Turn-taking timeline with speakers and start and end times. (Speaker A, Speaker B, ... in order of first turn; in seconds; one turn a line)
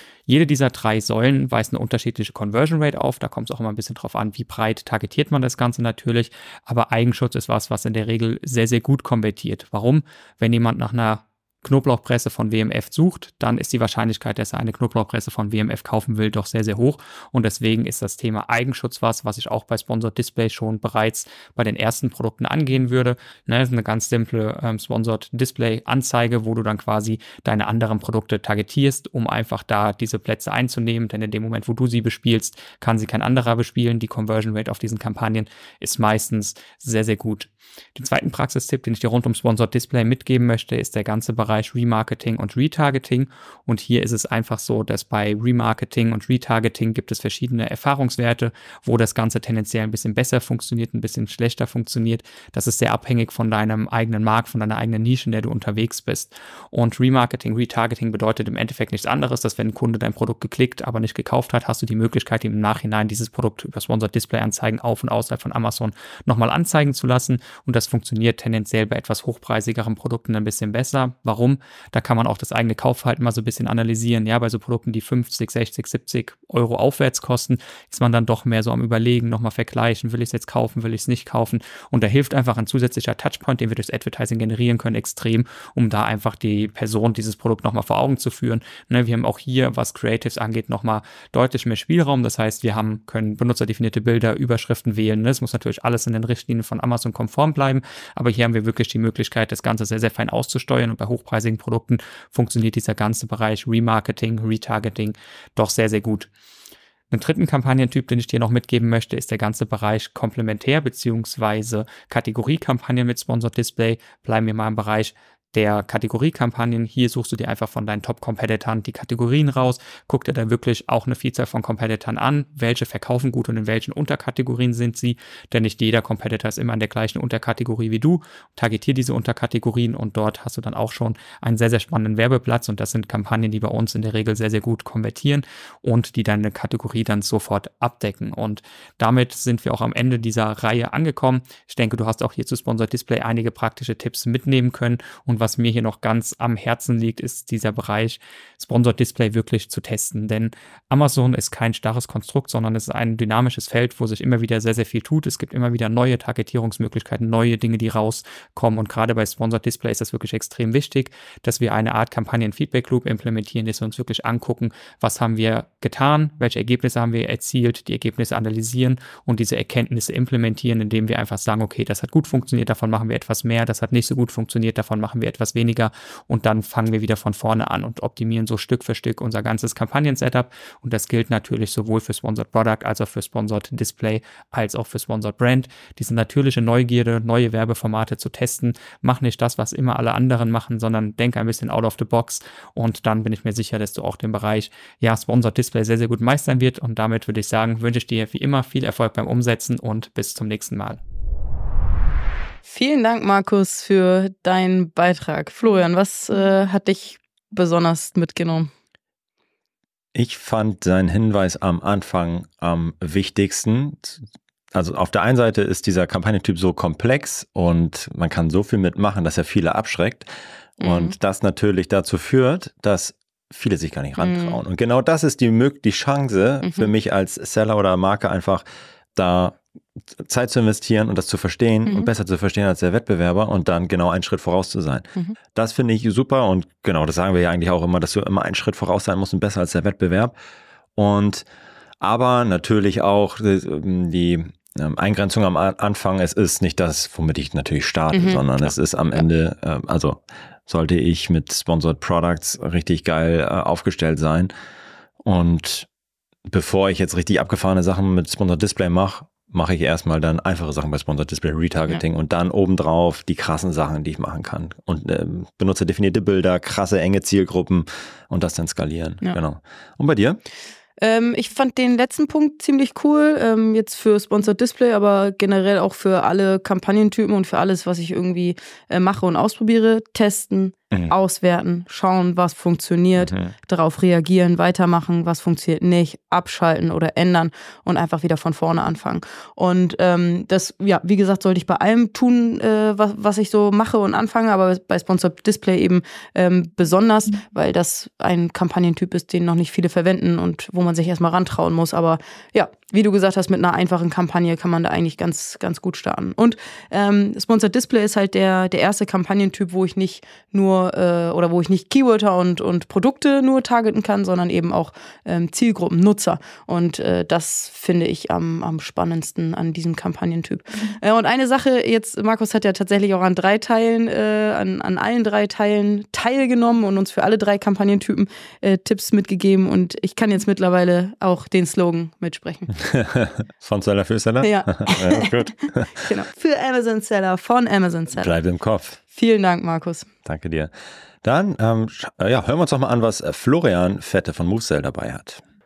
Speaker A: 0.3-106.3
Speaker A: 107.1-201.0
Speaker B: 202.6-208.7
Speaker C: 210.1-214.2
Speaker C: 214.7-229.6
Speaker B: 220.8-221.1
Speaker B: 224.2-224.6
Speaker B: 226.6-226.9
Speaker C: 230.2-240.3
Speaker C: 240.9-241.4
Speaker C: 242.0-254.5
Speaker B: 248.1-249.2
Speaker C: 255.2-255.9
Speaker C: 256.5-270.4
Speaker B: 271.0-332.7
Speaker C: 283.2-283.5
Speaker C: 332.8-336.0
Speaker B: 334.4-335.4
Speaker B: 336.0-338.4
Speaker C: 338.1-339.0
Speaker B: 339.1-340.1
Speaker C: 340.2-340.7
Speaker C: 341.2-345.4